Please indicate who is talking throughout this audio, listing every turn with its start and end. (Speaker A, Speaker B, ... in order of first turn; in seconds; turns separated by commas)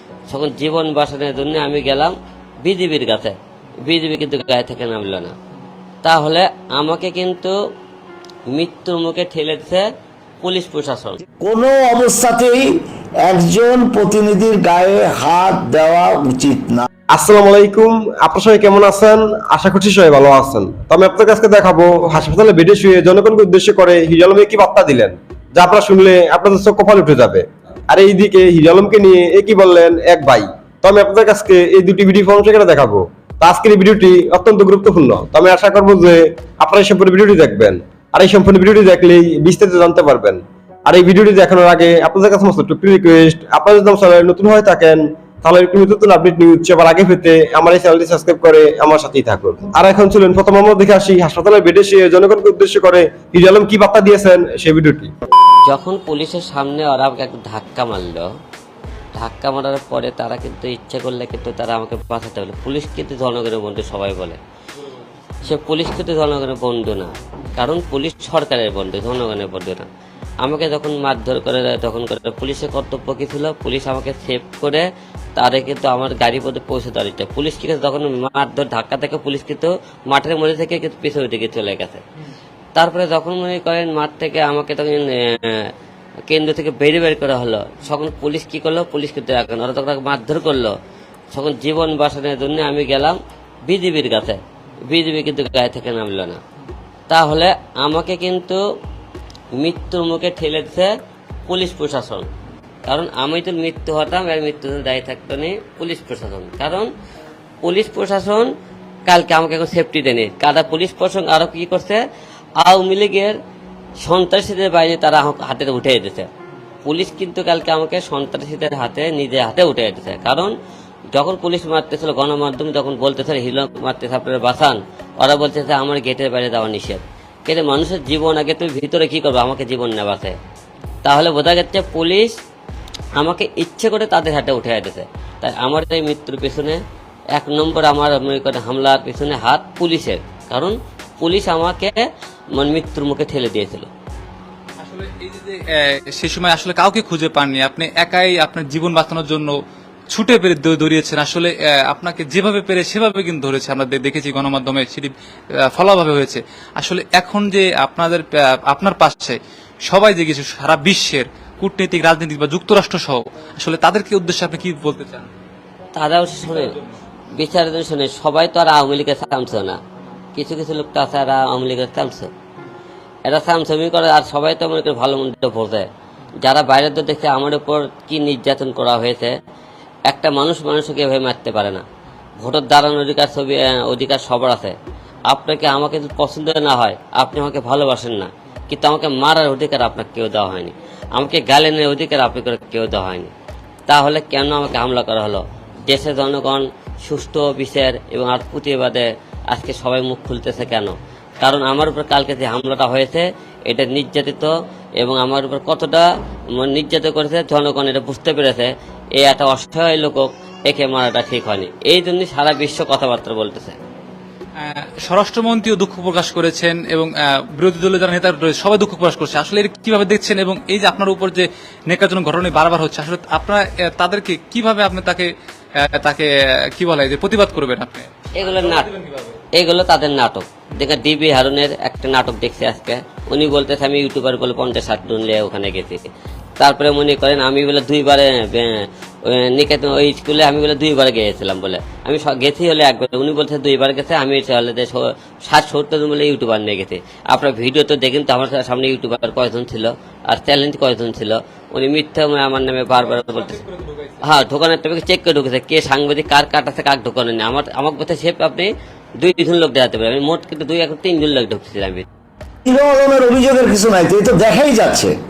Speaker A: 0.3-3.3, Speaker A: 3.9-5.3, Speaker A: 6.0-7.5, Speaker A: 8.5-9.8, Speaker A: 10.4-11.2, Speaker B: 11.4-16.9, Speaker C: 17.1-55.1, Speaker A: 55.7-58.3, Speaker A: 59.1-64.4, Speaker A: 65.4-69.9, Speaker A: 70.4-82.0, Speaker A: 82.8-85.7, Speaker A: 86.3-90.7, Speaker A: 91.3-96.4, Speaker A: 97.1-98.6, Speaker A: 99.6-100.9, Speaker A: 101.5-102.3, Speaker A: 102.9-106.9, Speaker A: 107.6-108.5, Speaker A: 109.1-112.0, Speaker A: 112.6-113.3, Speaker A: 114.0-116.3, Speaker A: 116.8-120.5, Speaker A: 121.1-130.3, Speaker A: 131.0-132.3, Speaker A: 133.1-136.8, Speaker A: 137.3-143.9, Speaker D: 144.8-149.5, Speaker D: 150.1-155.1, Speaker D: 155.7-165.3, Speaker A: 165.9-166.8, Speaker A: 167.3-169.8, Speaker A: 170.3-172.3, Speaker A: 173.3-175.9, Speaker A: 176.4-179.3, Speaker A: 180.1-181.8, Speaker A: 182.4-184.7, Speaker A: 185.3-193.3, Speaker A: 193.9-213.8, Speaker D: 214.6-225.3, Speaker D: 226.0-229.4, Speaker A: 228.4-228.9, Speaker A: 229.6-236.0, Speaker A: 236.6-253.6, Speaker D: 253.1-254.2, Speaker A: 254.2-262.0, Speaker B: 262.6-265.1